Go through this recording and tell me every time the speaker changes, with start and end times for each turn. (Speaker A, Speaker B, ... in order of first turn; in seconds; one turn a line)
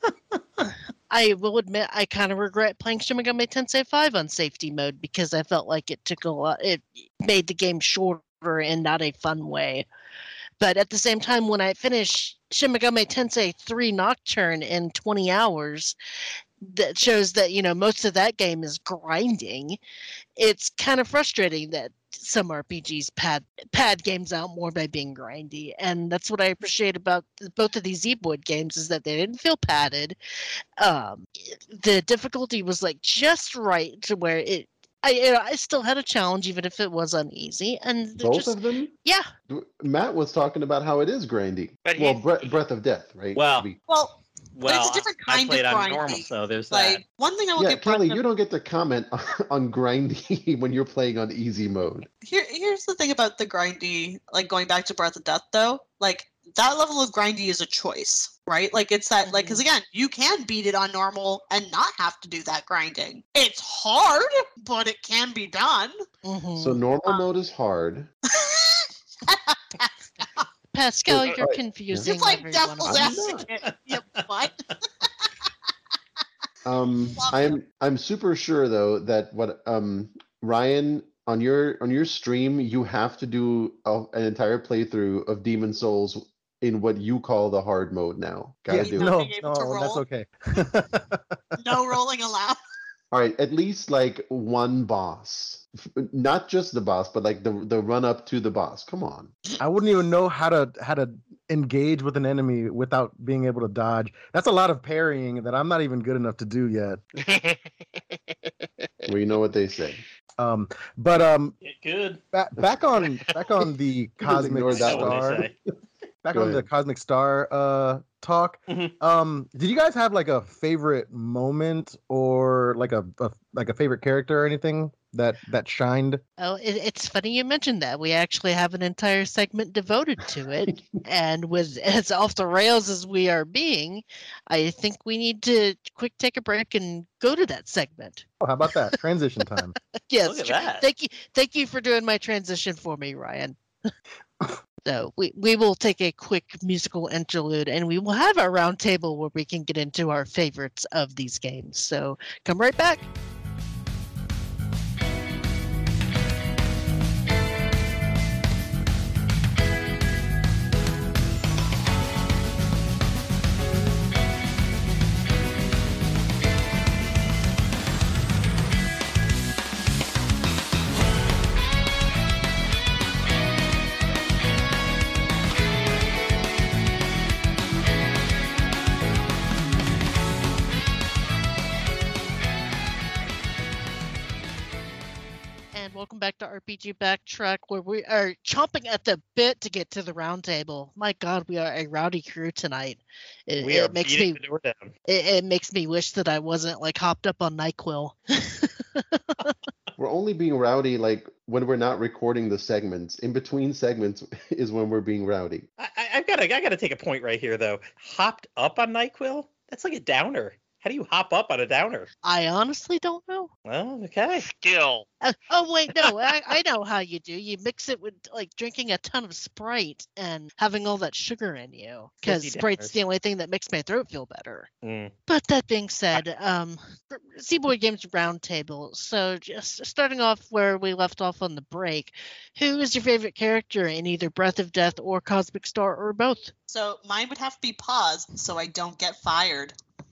Speaker A: 1.1-9.8
Speaker A: 10.6-15.9
Speaker A: 16.6-19.8
Speaker A: 20.4-30.2
Speaker A: 30.8-39.3
Speaker B: 38.2-38.9
Speaker B: 39.5-43.8
Speaker C: 41.8-42.5
Speaker D: 43.4-43.7
Speaker E: 43.9-48.2
Speaker D: 44.5-47.0
Speaker B: 47.6-52.1
Speaker E: 52.2-65.9
Speaker A: 59.2-59.6
Speaker A: 66.2-66.8
Speaker B: 66.6-68.1
Speaker E: 68.3-70.4
Speaker A: 70.7-73.3
Speaker B: 71.1-72.1
Speaker E: 72.0-75.3
Speaker B: 72.8-73.5
Speaker B: 76.6-89.2
Speaker E: 77.2-77.5
Speaker F: 88.7-91.4
Speaker E: 88.8-90.0
Speaker E: 91.6-92.6
Speaker B: 93.1-99.3
Speaker F: 99.6-107.0
Speaker C: 107.2-107.7
Speaker B: 109.0-110.0
Speaker F: 110.4-111.5
Speaker D: 111.6-112.2
Speaker F: 112.3-115.4
Speaker B: 114.2-115.5
Speaker D: 114.7-115.5
Speaker F: 116.2-126.2
Speaker B: 116.3-116.7
Speaker D: 118.7-118.9
Speaker A: 126.4-138.2
Speaker F: 138.4-139.7
Speaker A: 140.0-143.9
Speaker D: 140.2-140.8
Speaker A: 144.8-153.0
Speaker A: 185.7-194.4
Speaker D: 193.6-194.9
Speaker A: 195.1-199.5
Speaker B: 200.0-205.7
Speaker D: 205.8-212.1
Speaker A: 212.2-213.5
Speaker D: 213.7-214.4
Speaker C: 214.3-215.1
Speaker A: 215.2-224.7
Speaker D: 222.2-223.0
Speaker D: 224.8-225.1
Speaker A: 225.3-236.5
Speaker E: 236.7-239.7